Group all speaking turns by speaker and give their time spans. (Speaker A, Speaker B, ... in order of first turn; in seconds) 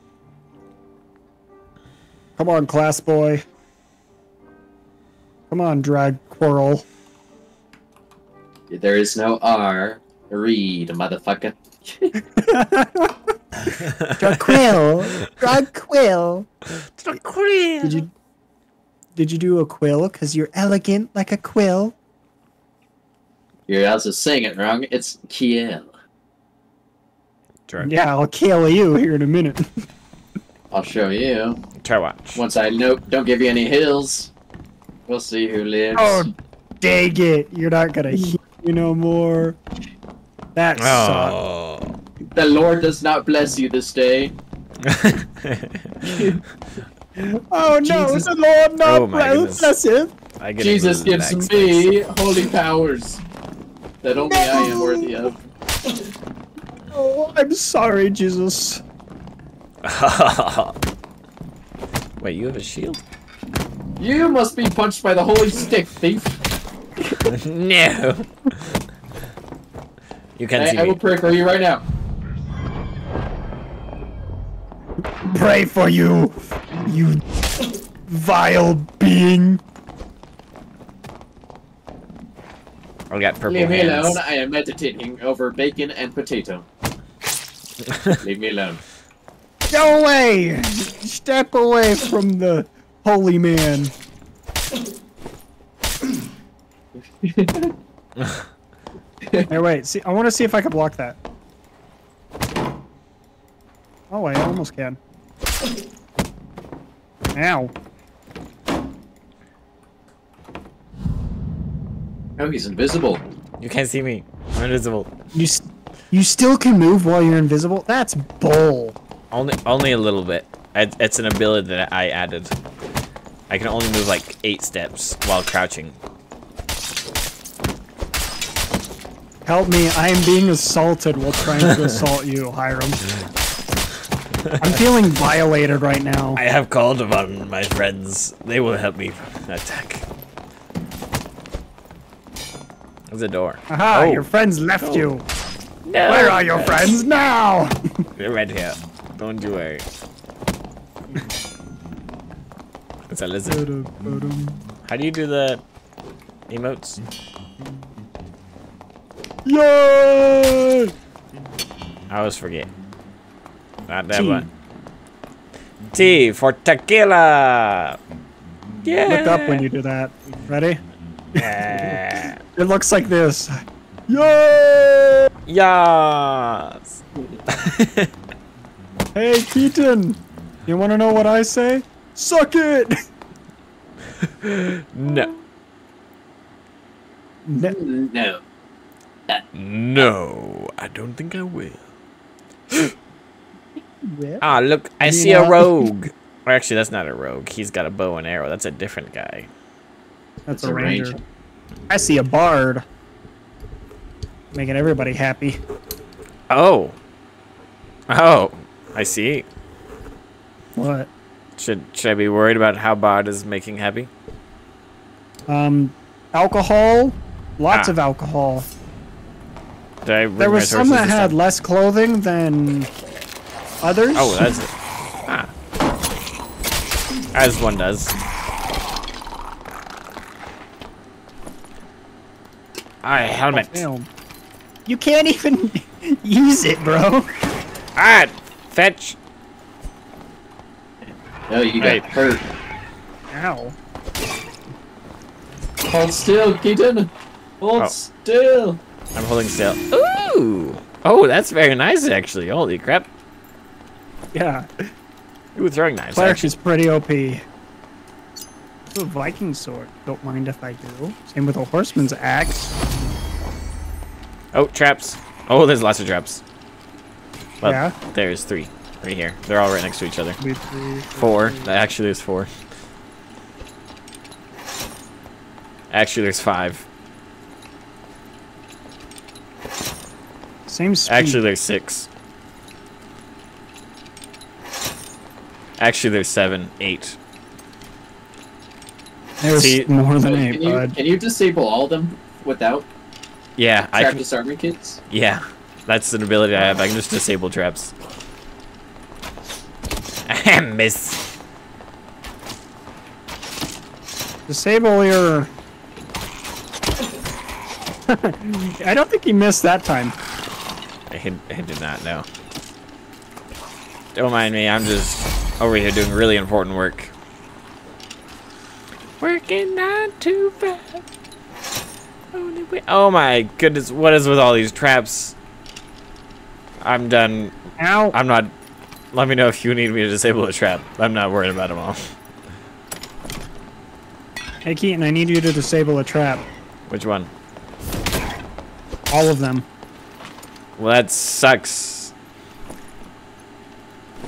Speaker A: 2.4-3.4, 5.5-6.9, 12.3-16.5, 17.8-18.1, 19.1-22.0, 27.8-29.7, 36.0-39.6, 40.5-41.4, 47.2-50.1, 54.2-55.2, 56.9-58.8, 75.2-77.2, 78.1-79.6, 89.7-93.9, 99.5-101.2, 104.1-105.0, 107.3-107.7, 115.3-119.0, 129.4-133.0, 134.6-136.4, 143.7-145.2, 146.0-147.8, 153.5-154.6, 159.5-160.9, 164.1-164.5, 169.1-170.8, 172.6-173.5, 174.1-175.3, 179.2-182.9, 187.5-187.8, 194.0-194.4, 195.0-195.9, 200.5-201.2, 201.9-202.8, 204.5-205.6, 210.8-211.1, 215.5-218.7, 220.4-222.9, 223.8-224.5, 233.5-234.1, 234.9-237.3, 243.3-243.8, 254.3-254.7, 256.1-257.4, 258.9-262.8, 267.6-267.9, 270.4-271.7, 280.7-281.4, 289.4-290.9, 304.5-305.5, 308.1-310.2, 327.8-328.2, 334.6-336.5, 339.1-339.7
Speaker B: 8.7-12.2, 23.7-25.9, 30.7-31.6, 32.4-34.3, 35.1-36.3, 42.4-44.4, 46.0-46.4, 47.7-48.3, 50.6-53.2, 54.0-55.4, 64.0-66.4, 70.6-71.8, 83.5-86.7, 88.2-88.8, 97.2-97.7, 112.4-113.2, 185.1-185.4, 187.6-188.4, 200.5-201.2, 241.1-242.4, 245.9-247.1, 247.6-248.8, 290.2-292.9, 293.9-295.0
Speaker C: 13.8-14.8, 16.9-18.0, 31.8-32.4, 40.8-42.0, 44.8-46.2, 48.8-49.7, 50.4-52.0, 59.8-60.7, 62.2-63.0, 67.2-68.5, 70.4-71.0, 83.1-84.2, 87.9-88.2, 98.2-98.4, 113.6-115.1, 119.3-122.5, 123.5-126.0, 136.4-140.1, 143.1-144.3, 144.8-145.1, 145.9-147.0, 148.2-149.9, 153.1-153.7, 154.8-155.6, 156.5-157.0, 162.1-162.7, 163.9-164.5, 165.9-168.0, 168.8-169.7, 171.4-172.4, 175.5-178.1, 184.4-185.3, 189.5-191.8, 194.4-199.5, 206.5-207.0, 208.1-209.5, 211.6-214.1, 217.7-218.0, 220.1-221.4, 224.2-224.7, 227.3-228.2, 233.0-233.9, 238.0-239.2, 241.8-242.1, 249.2-253.1, 255.6-256.5, 264.5-266.4, 267.6-270.4, 271.2-272.5, 275.9-276.9, 281.1-282.1, 285.8-287.2, 289.6-289.9, 293.6-294.2, 295.1-297.9, 300.3-301.2, 311.1-312.3, 314.1-317.1, 319.2-321.0, 322.3-325.4, 326.8-327.5, 328.1-328.5, 329.1-332.1, 336.9-337.3, 340.8-342.1